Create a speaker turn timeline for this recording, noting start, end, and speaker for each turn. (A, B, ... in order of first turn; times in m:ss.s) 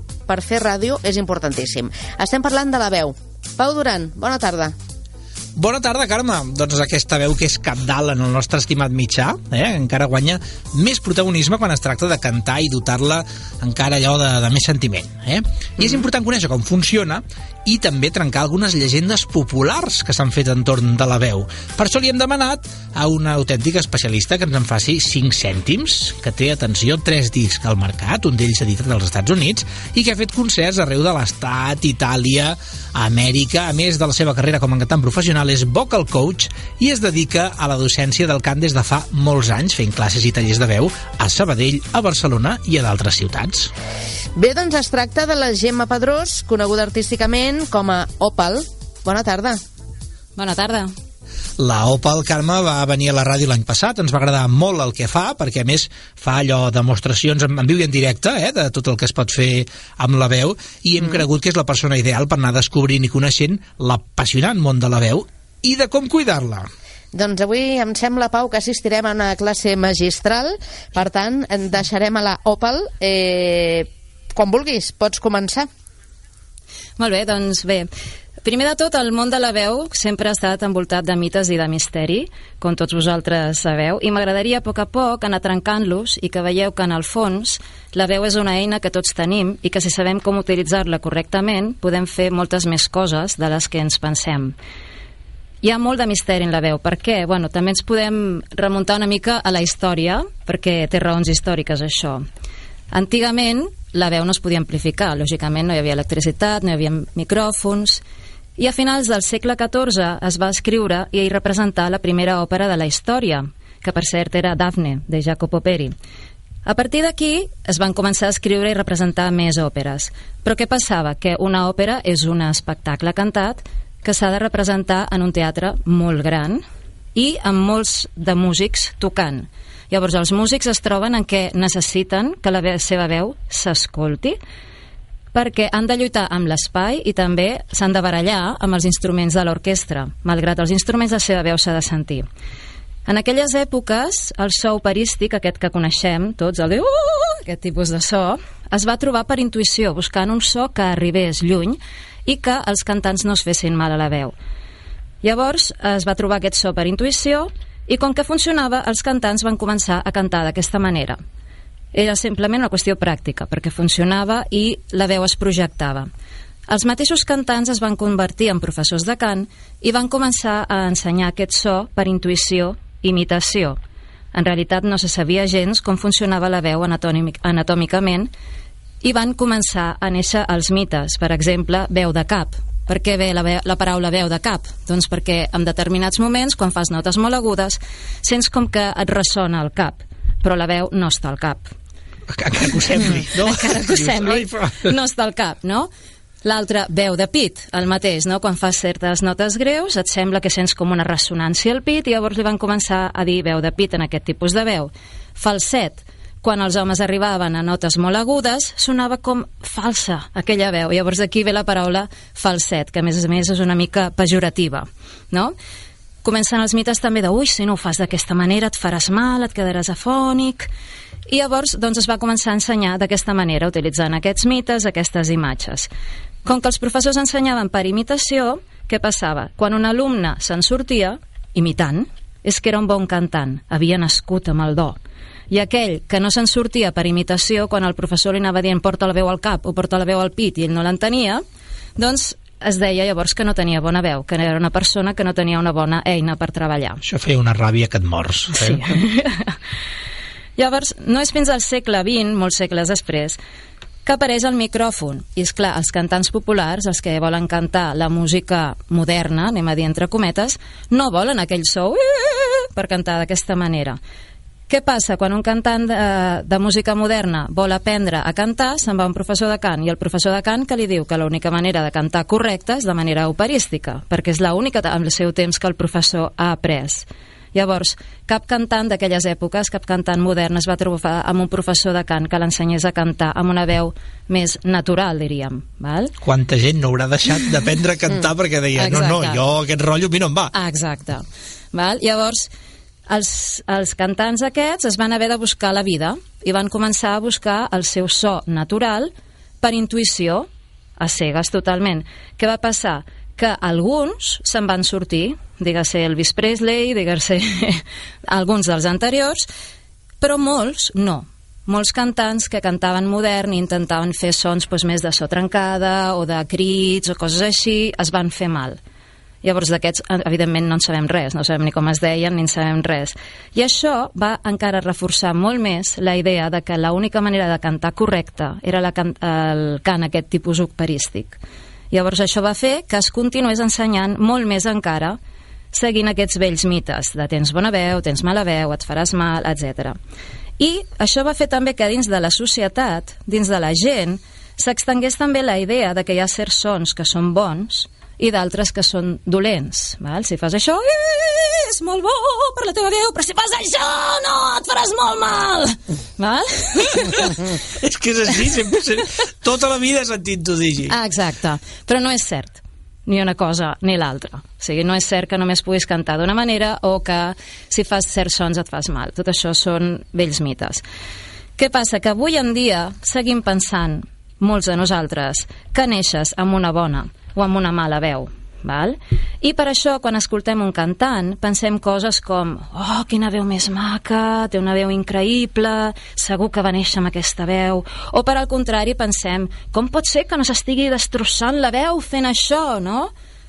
0:00.3-0:04.7 A
0:05.6-0:43.7 B
0:44.4-0:49.6 A
0:50.4-0:50.9 C
0:51.6-1:06.7 B
1:07.1-1:15.7 A
1:17.0-1:17.9 C
1:18.4-1:34.6 C
1:35.6-1:42.2 C
1:42.9-1:48.0 C
1:48.6-1:55.9 C
1:56.6-2:06.6 C
2:07.2-2:14.4 C
2:15.3-2:22.2 C
2:23.0-2:34.3 C
2:35.2-2:41.2 C
2:41.9-2:46.1 C
2:46.7-2:53.8 C
2:54.3-2:58.3 C
2:59.0-3:11.7 C
3:12.3-3:14.9 B
3:13.3-3:15.9 C
3:16.4-3:35.5 C
3:36.2-3:40.7 C
3:41.3-3:45.9 C
3:46.4-3:55.0 C
3:55.5-4:01.4 C
4:02.0-4:07.0 C
4:07.0-4:08.8 B
4:08.5-4:09.6 C
4:10.6-4:13.4 C
4:14.0-4:24.0 C
4:24.7-4:46.1 C
4:46.2-4:50.5 B
4:48.8-4:49.4 C
4:50.5-4:52.5 C
4:53.1-5:00.4 C
5:01.0-5:09.4 C
5:10.2-5:18.8 C
5:19.4-5:31.4 C
5:31.9-5:35.2 C
5:35.7-5:40.0 C
5:40.6-5:57.4 C
5:56.9-6:00.9 B
6:00.9-6:10.8 C
6:11.6-6:33.1 C